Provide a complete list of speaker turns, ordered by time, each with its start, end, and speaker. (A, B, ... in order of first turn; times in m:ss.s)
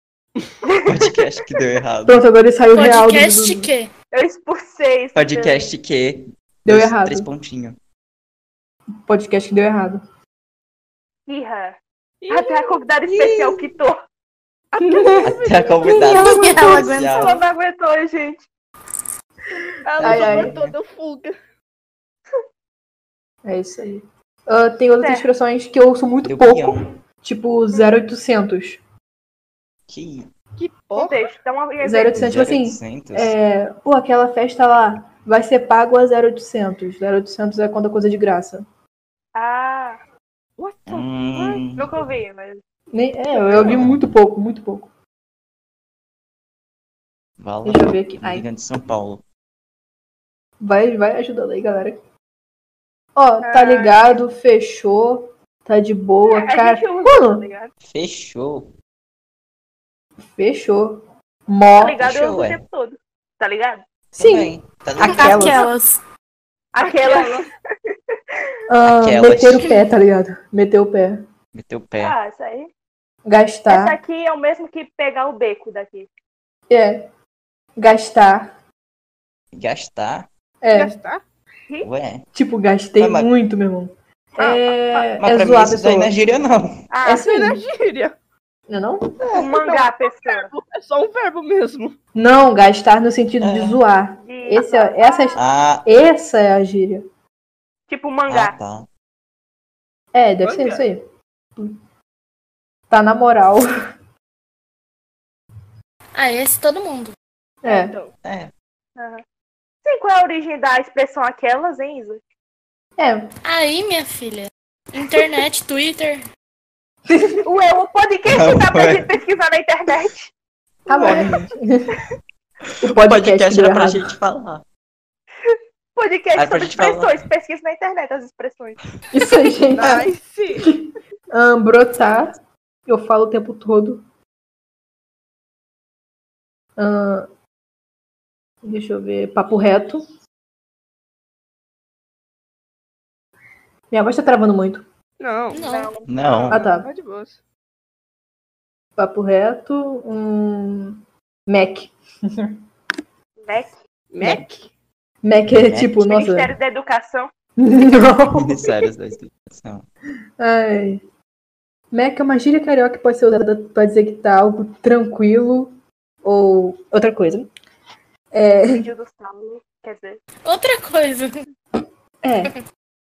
0:00.7-0:01.1 A
0:00.8-0:02.2 B
0:02.1-0:03.7 C
0:02.7-0:03.9 D
0:04.1-0:05.7 A
0:05.2-0:07.8 B
0:06.6-0:07.3 C
0:09.1-0:10.0 C
0:11.3-0:11.8 A
0:12.2-0:12.8 E
0:12.3-0:14.0 A
0:13.1-0:13.6 B
0:14.7-0:16.0 E
0:14.8-0:16.4 C
0:15.2-0:17.4 B
0:16.0-0:17.4 D
0:16.6-0:18.4 A
0:19.9-0:20.2 A
0:20.0-0:21.4 E
0:20.0-0:20.8 B
0:20.0-0:20.5 C
0:23.4-0:28.8 C
0:25.0-0:25.3 A
0:26.2-0:26.9 B
0:29.9-0:30.3 B
0:30.6-0:31.2 E
0:30.9-0:32.2 A
0:31.8-0:38.6 C
0:32.2-0:33.3 B
0:39.4-0:40.0 A
0:40.6-0:41.6 E
0:40.9-0:41.9 B
0:41.8-0:42.6 A
0:42.9-0:44.9 C
0:43.4-0:43.8 A
0:43.6-0:44.1 B
0:47.4-0:49.2 B
0:47.6-0:48.5 C
0:50.6-0:52.0 C
0:53.2-0:57.4 C
0:53.4-0:54.2 A
0:56.3-0:57.7 A
0:57.8-0:58.7 B
1:00.4-1:02.0 C
1:01.7-1:03.8 A
1:02.0-1:02.6 B
1:04.1-1:05.7 B
1:04.2-1:05.6 C
1:05.0-1:06.0 D
1:06.7-1:07.5 A
1:06.8-1:07.5 E
1:08.7-1:11.2 C
1:08.8-1:09.7 B
1:11.5-1:12.2 B
1:12.0-1:12.7 A
1:13.3-1:14.0 C
1:13.7-1:16.1 A
1:16.7-1:17.1 C
1:17.8-1:18.5 C
1:19.5-1:20.3 B
1:20.6-1:21.0 C
1:20.7-1:21.2 E
1:21.8-1:22.3 B
1:22.3-1:26.1 C
1:23.0-1:23.3 B
1:24.4-1:25.1 E
1:25.2-1:26.9 B
1:26.9-1:27.3 A
1:27.0-1:27.6 C
1:27.1-1:28.2 E
1:28.7-1:29.2 C
1:29.3-1:30.5 A
1:29.4-1:32.0 E
1:32.2-1:37.0 C
1:33.4-1:33.8 B
1:34.2-1:35.4 A
1:35.4-1:35.9 B
1:37.9-1:38.6 A
1:38.3-1:38.9 B
1:40.1-1:41.0 C
1:40.4-1:40.8 E
1:42.9-1:43.7 C
1:46.1-1:47.2 D
1:47.6-1:48.0 C
1:47.6-1:48.1 E
1:48.2-1:48.5 B
1:49.0-1:49.2 A
1:49.8-1:52.2 A
1:53.0-1:53.3 C
1:53.4-1:56.2 D
1:57.1-1:57.4 C
1:57.4-2:00.3 A
1:58.3-1:59.1 B
2:00.9-2:02.0 C
2:00.9-2:01.3 B
2:02.8-2:04.0 C
2:02.9-2:04.6 B
2:05.5-2:08.8 A
2:06.4-2:07.2 B
2:09.1-2:10.1 C
2:09.7-2:10.7 E
2:10.6-2:12.4 C
2:12.9-2:14.0 C
2:16.8-2:17.3 C
2:18.6-2:20.0 C
2:23.9-2:24.8 C
2:25.2-2:25.6 E
2:25.5-2:25.9 D
2:25.6-2:26.6 A
2:26.1-2:26.6 B
2:26.2-2:27.4 E
2:26.5-2:26.9 C
2:29.0-2:32.6 C
2:33.4-2:33.7 A
2:34.1-2:34.7 E
2:35.2-2:36.6 C
2:35.5-2:36.0 B
2:36.0-2:37.3 A
2:37.6-2:38.6 C
2:38.3-2:39.9 B
2:40.4-2:41.0 C
2:41.9-2:47.5 C
2:48.3-2:48.9 C
2:48.7-2:50.2 A
2:50.4-2:51.4 D
2:52.2-2:52.5 C